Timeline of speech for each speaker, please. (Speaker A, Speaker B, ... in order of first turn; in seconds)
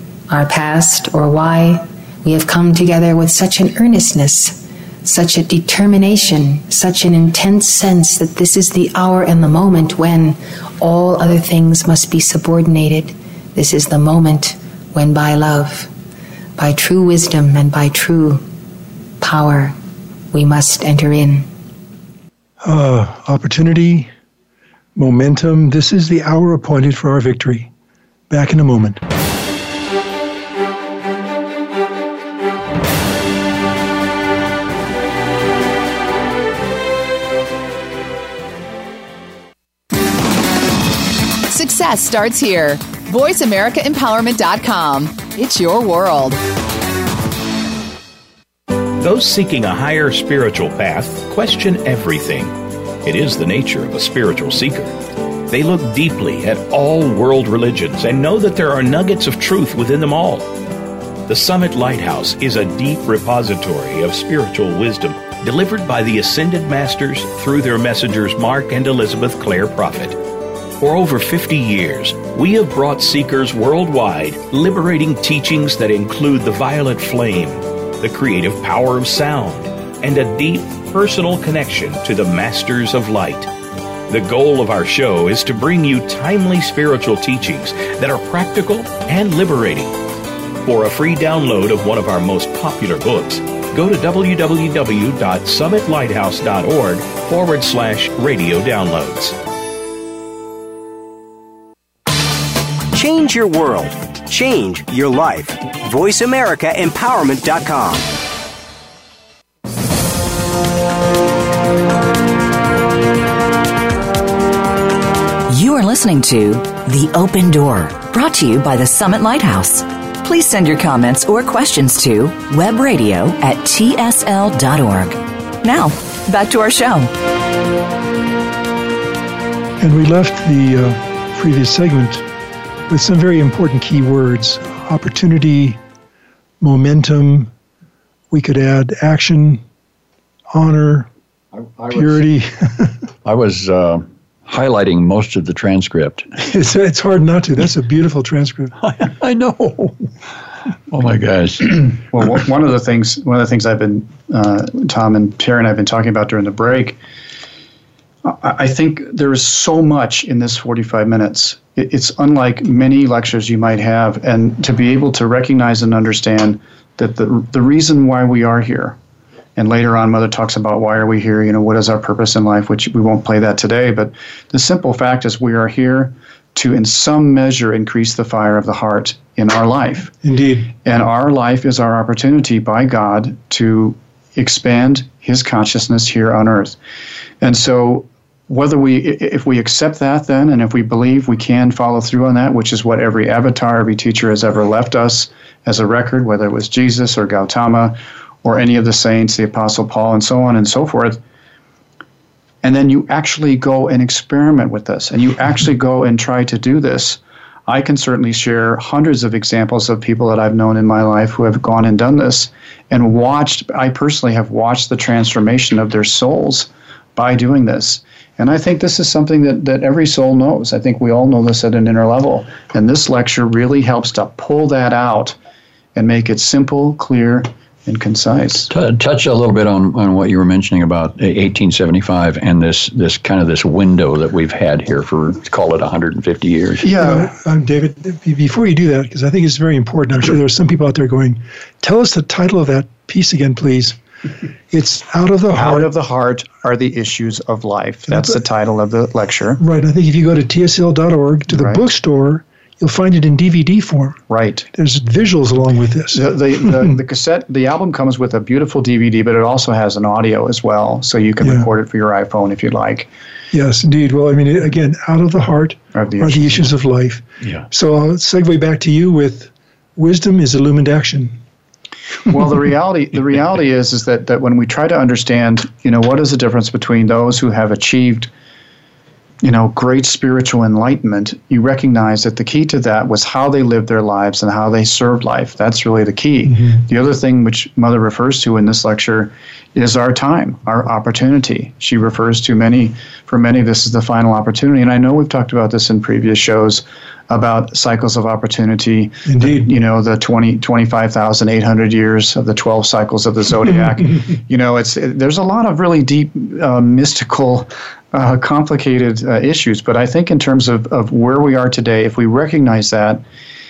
Speaker A: 0.3-15.9, 16.6-18.4, 19.2-19.8, 20.3-21.5
Speaker B: 22.6-24.1, 24.9-27.7, 28.3-29.0, 129.8-132.2, 132.9-135.8, 136.6-137.5, 138.3-139.6, 140.5-141.1, 141.9-143.0, 146.4-148.7, 180.2-180.7, 236.8-244.0, 244.7-245.9, 248.1-248.4, 249.6-254.2, 254.7-256.9, 261.4-261.7, 263.5-271.4, 286.5-286.8, 299.2-299.7
Speaker C: 41.5-46.4
Speaker D: 49.0-52.5, 53.0-55.0, 55.5-60.5, 61.3-70.2, 70.8-83.5, 84.1-89.9, 90.6-99.3
Speaker E: 102.9-108.0
Speaker F: 115.5-127.1
Speaker G: 141.5-142.2, 143.2-146.3, 148.8-150.1, 150.9-151.9, 228.7-237.0
Speaker H: 151.8-157.0, 158.2-169.0, 169.6-180.1, 180.8-186.8, 187.4-201.2, 202.6-225.4, 225.9-228.7, 245.5-249.6, 251.5-251.8, 254.3-254.7, 256.1-263.1, 265.9-266.7, 272.3-278.3, 279.4-313.2